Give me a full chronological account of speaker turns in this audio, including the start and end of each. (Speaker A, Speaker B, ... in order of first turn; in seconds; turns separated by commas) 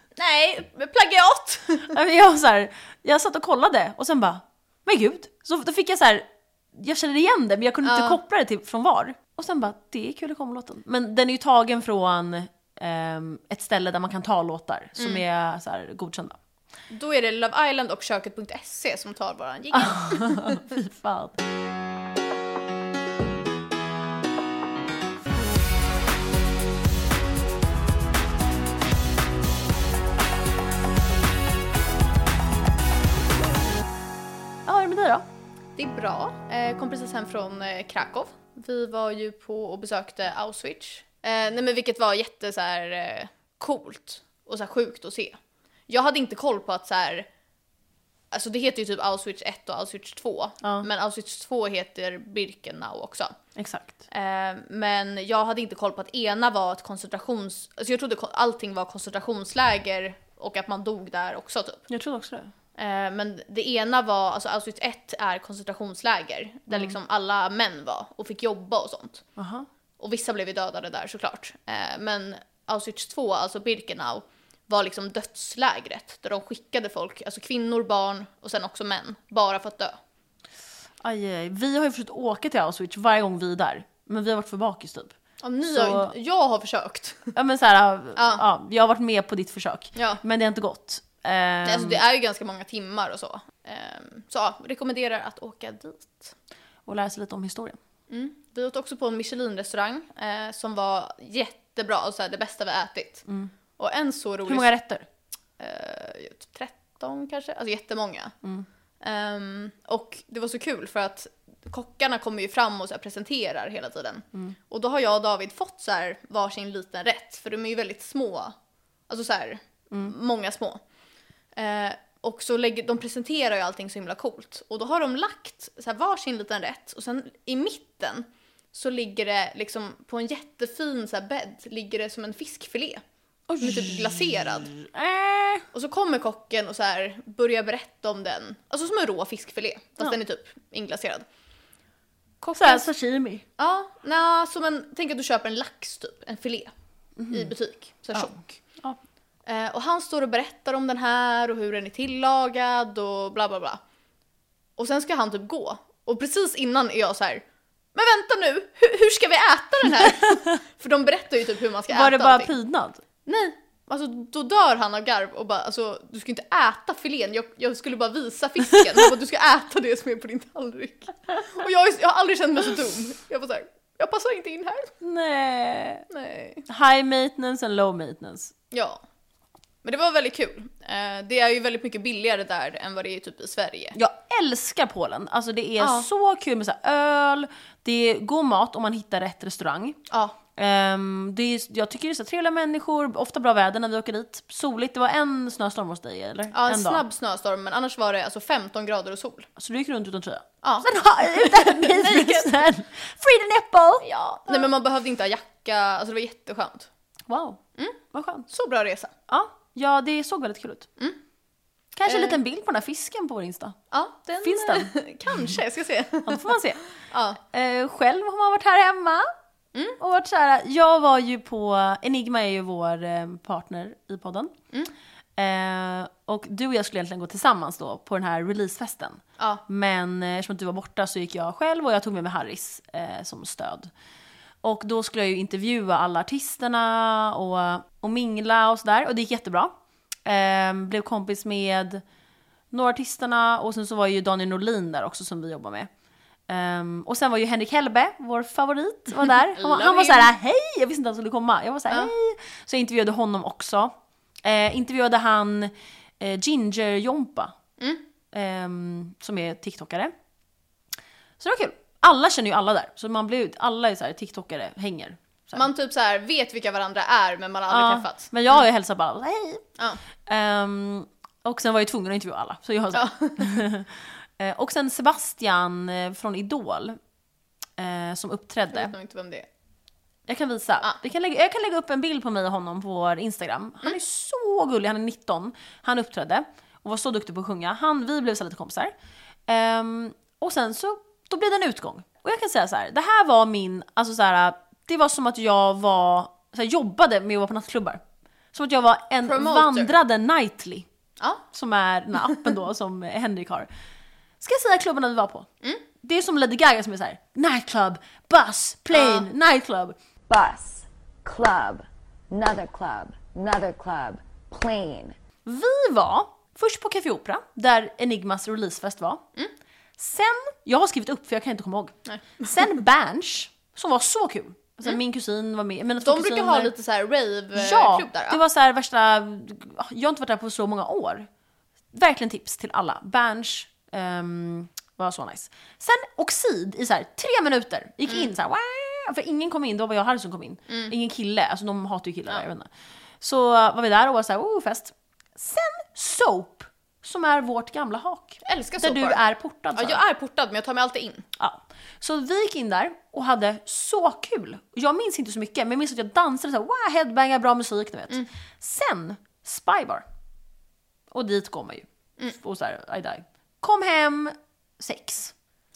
Speaker A: 0.2-2.0, Speaker B: 1.9-16.4, Speaker A: 7.8-8.2, Speaker A: 15.0-15.2, Speaker A: 16.9-20.6, Speaker B: 19.7-21.4, Speaker B: 34.7-35.2, Speaker A: 35.8-45.4, Speaker A: 45.9-47.3, Speaker A: 48.3-53.4, Speaker B: 50.6-50.9, Speaker B: 53.6-54.1, Speaker A: 54.1-61.9, Speaker B: 61.9-62.5, Speaker A: 62.8-69.2, Speaker B: 66.7-67.0, Speaker B: 69.4-69.7, Speaker A: 70.0-80.0, Speaker B: 81.0-86.1, Speaker A: 85.4-87.3, Speaker B: 87.3-92.0, Speaker A: 88.2-88.4, Speaker A: 90.0-90.2, Speaker A: 91.7-96.3, Speaker B: 96.9-97.8, Speaker A: 98.1-103.3, Speaker A: 103.8-104.7, Speaker B: 104.5-105.1, Speaker A: 105.6-108.3, Speaker A: 109.0-118.6, Speaker A: 119.1-120.8, Speaker A: 121.5-133.0, Speaker B: 133.5-135.7, Speaker A: 133.6-134.7, Speaker A: 135.7-141.3, Speaker A: 142.4-142.9, Speaker B: 142.6-143.5, Speaker A: 143.6-146.7, Speaker B: 147.2-147.5, Speaker A: 147.3-148.6, Speaker B: 148.1-149.0, Speaker A: 149.5-153.8, Speaker A: 154.8-162.5, Speaker B: 161.9-163.0, Speaker A: 163.3-174.9, Speaker B: 175.0-176.1, Speaker A: 176.1-176.6, Speaker B: 176.7-178.5, Speaker A: 178.7-179.0, Speaker A: 179.8-184.0, Speaker B: 183.9-190.0, Speaker A: 185.8-186.1, Speaker A: 190.1-190.4, Speaker B: 190.6-197.0, Speaker A: 196.5-199.5, Speaker B: 199.6-204.6, Speaker A: 200.6-202.6, Speaker A: 204.0-206.9, Speaker B: 207.3-208.5, Speaker A: 208.5-209.1, Speaker B: 209.3-210.9, Speaker B: 211.9-213.8, Speaker A: 212.1-212.4, Speaker A: 213.9-217.4, Speaker B: 214.4-214.9, Speaker B: 216.2-216.8, Speaker B: 217.4-219.3, Speaker B: 220.0-224.5, Speaker B: 225.4-233.9, Speaker A: 229.4-229.6, Speaker B: 234.6-239.7, Speaker B: 240.2-242.0, Speaker B: 242.7-245.9, Speaker B: 246.5-253.9, Speaker A: 249.5-250.3, Speaker B: 254.4-257.6, Speaker A: 257.8-258.0, Speaker B: 258.3-260.1, Speaker B: 261.4-265.7, Speaker A: 265.6-268.6, Speaker B: 267.7-269.7, Speaker B: 270.2-277.0, Speaker A: 272.9-273.5, Speaker B: 277.8-278.9, Speaker A: 278.7-279.5, Speaker B: 280.3-288.9, Speaker B: 289.5-298.0, Speaker B: 298.5-300.9, Speaker A: 299.2-299.9, Speaker A: 301.2-301.4, Speaker B: 301.5-303.7, Speaker B: 304.4-305.5, Speaker B: 306.0-309.9, Speaker A: 308.9-309.3, Speaker C: 310.3-315.1, Speaker B: 315.4-319.2, Speaker B: 320.0-326.7, Speaker A: 322.1-322.5, Speaker A: 326.0-328.4, Speaker B: 327.6-331.3, Speaker B: 331.9-342.7, Speaker B: 343.2-350.0, Speaker A: 348.4-349.2, Speaker A: 349.8-351.3, Speaker B: 351.4-360.1, Speaker B: 361.1-365.3